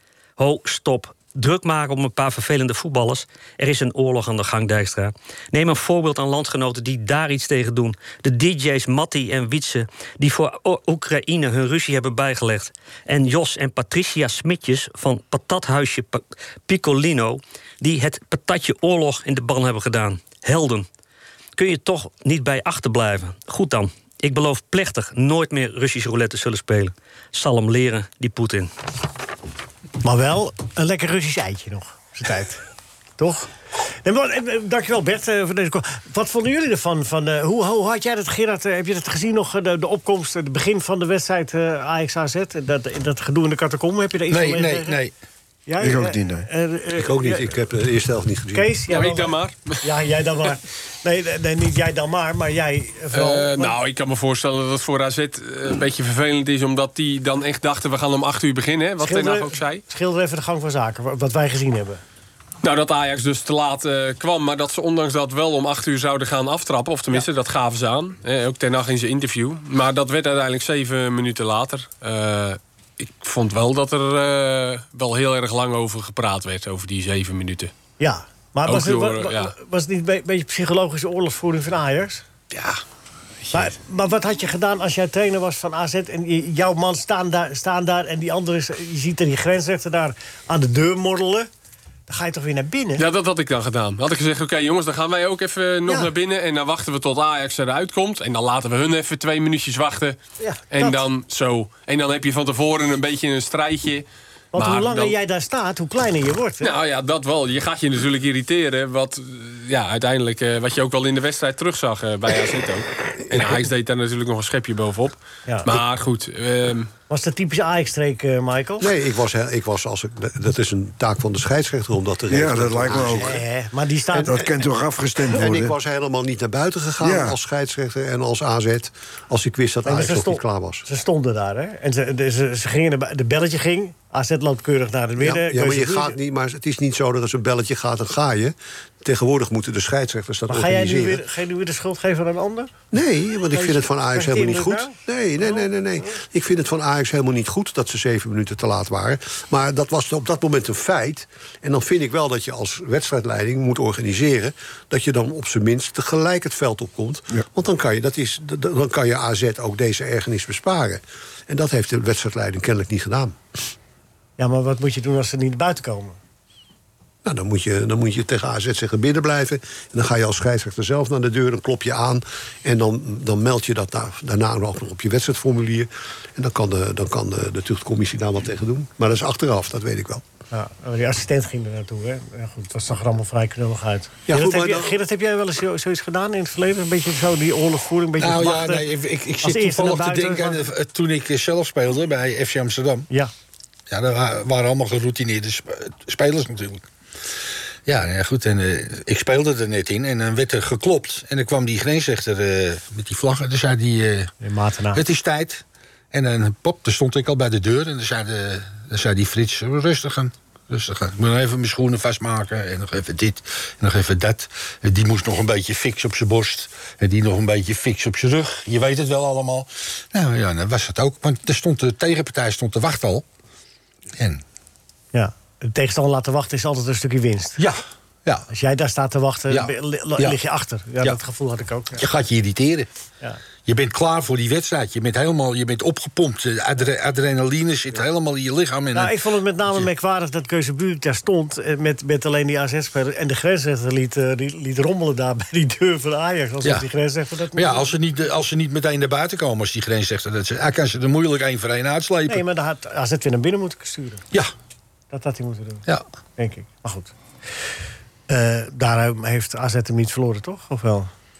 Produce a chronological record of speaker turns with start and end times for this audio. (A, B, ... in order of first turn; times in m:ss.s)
0:00.4-0:20.8 A
0:21.6-0:28.7 A
0:30.0-0:32.6 B
0:33.2-0:33.5 B
0:34.0-0:45.0 B
0:44.3-0:45.1 C
0:45.7-0:47.5 B
0:45.8-0:46.5 D
0:47.0-0:48.7 E
0:48.5-0:53.7 B
0:48.9-0:49.8 F
0:53.1-0:59.8 F
0:59.0-1:02.0 B
1:02.6-1:17.7 F
1:18.0-1:22.2 B
1:18.7-1:19.5 F
1:22.5-1:22.8 F
1:23.5-1:31.5 B
1:32.1-1:33.0 B
1:33.0-1:40.2 F
1:35.8-1:36.1 B
1:40.4-1:41.0 B
1:40.7-1:44.0 F
1:44.5-1:46.7 B
1:44.6-1:45.1 F
1:46.6-1:56.9 F
1:57.1-1:58.9 B
1:58.8-2:03.4 E
2:02.3-2:03.4 D
2:03.1-2:04.4 B
2:04.1-2:04.6 E
2:04.2-2:05.7 D
2:05.3-2:10.8 E
2:07.0-2:07.4 D
2:09.8-2:16.2 B
2:15.2-2:21.2 E
2:20.5-2:22.7 B
2:22.9-2:43.4 E
2:23.5-2:24.9 B
2:44.4-2:46.2 B
2:47.2-3:00.2 E
3:00.5-3:08.8 B
3:04.3-3:05.0 E
3:08.2-3:13.1 C
3:09.4-3:10.7 B
3:13.9-3:16.8 C
3:17.8-3:24.3 C
3:24.4-3:25.0 B
3:24.9-3:43.2 C
3:44.2-3:44.4 C
3:45.1-3:47.6 B
3:47.6-3:48.4 C
3:48.5-3:52.0 B
3:49.5-3:50.4 C
3:51.9-3:52.9 C
3:53.6-3:59.2 C
3:58.9-4:07.9 B
4:07.5-4:12.4 C
4:12.3-4:14.2 B
4:15.1-4:15.8 B
4:16.4-4:17.1 B
4:18.3-4:21.1 B